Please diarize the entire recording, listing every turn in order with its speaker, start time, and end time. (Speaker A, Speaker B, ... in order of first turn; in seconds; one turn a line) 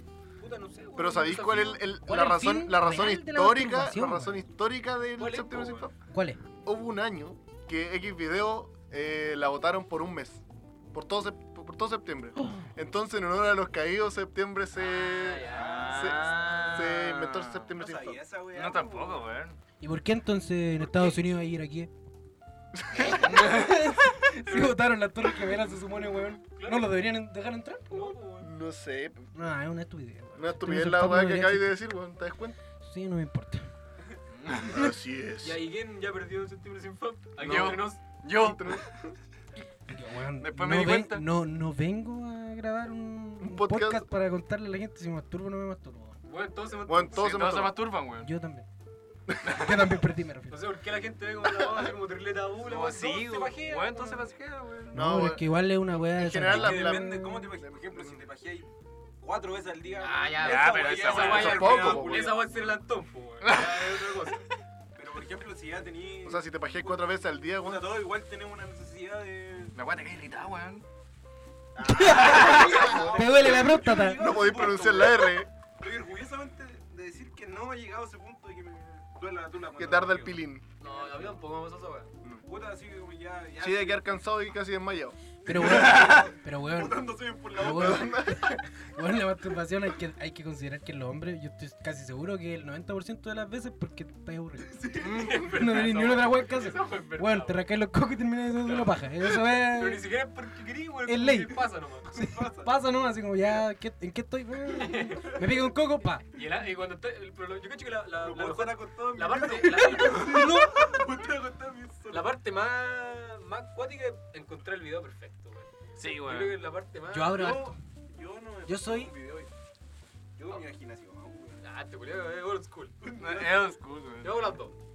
Speaker A: 0.4-1.8
Speaker B: 0.9-5.9
Speaker C: 2.0-4.4
Speaker A: 5.2-5.9
Speaker C: 6.1-6.4
Speaker B: 6.6-18.2
Speaker A: 14.8-15.9
Speaker D: 15.4-16.9
Speaker E: 15.6-17.8
Speaker D: 17.8-19.3
Speaker E: 18.5-19.6
Speaker C: 19.8-21.9
Speaker A: 20.9-21.2
Speaker B: 22.7-23.2
Speaker C: 22.9-28.1
Speaker E: 23.4-23.7
Speaker A: 24.4-24.8
Speaker A: 26.5-27.1
Speaker A: 27.9-28.5
Speaker B: 28.4-29.2
Speaker C: 29.3-31.8
Speaker B: 30.4-32.6
Speaker C: 32.8-33.6
Speaker E: 34.4-34.7
Speaker B: 34.6-35.6
Speaker A: 35.4-38.0
Speaker E: 37.4-38.8
Speaker B: 37.4-39.1
Speaker C: 39.9-46.1
Speaker E: 40.4-41.2
Speaker B: 43.4-44.1
Speaker A: 46.3-47.6
Speaker B: 46.9-47.8
Speaker E: 47.1-48.3
Speaker C: 48.2-48.6
Speaker B: 49.3-49.5
Speaker C: 49.4-50.6
Speaker A: 50.5-54.3
Speaker B: 51.5-51.9
Speaker E: 52.6-55.0
Speaker B: 54.9-57.0
Speaker C: 54.9-57.5
Speaker A: 56.5-57.1
Speaker D: 56.6-62.8
Speaker B: 57.6-58.2
Speaker A: 60.0-64.4
Speaker E: 60.3-61.8
Speaker B: 61.2-62.3
Speaker E: 63.4-63.7
Speaker D: 65.0-69.7
Speaker B: 66.2-68.0
Speaker E: 69.7-70.8
Speaker D: 71.7-81.4
Speaker C: 71.9-74.2
Speaker B: 72.4-73.4
Speaker B: 74.0-75.5
Speaker B: 79.8-80.6
Speaker A: 80.8-82.1
Speaker D: 82.4-84.1
Speaker B: 83.6-85.2
Speaker C: 85.5-94.8
Speaker D: 85.5-88.2
Speaker E: 85.7-86.2
Speaker B: 87.6-88.6
Speaker D: 94.6-95.5
Speaker A: 95.0-97.7
Speaker E: 95.0-95.5
Speaker C: 95.4-100.1
Speaker A: 98.6-102.1
Speaker C: 101.0-106.3
Speaker D: 102.0-102.7
Speaker A: 104.7-105.4
Speaker A: 106.2-110.6
Speaker D: 108.2-112.4
Speaker C: 109.8-110.9
Speaker A: 112.1-117.6
Speaker E: 116.0-116.6
Speaker C: 117.1-117.7
Speaker D: 117.3-119.5
Speaker C: 118.7-119.1
Speaker D: 120.4-121.6
Speaker A: 121.6-123.0
Speaker D: 123.0-123.8
Speaker E: 123.2-124.5
Speaker A: 124.2-124.8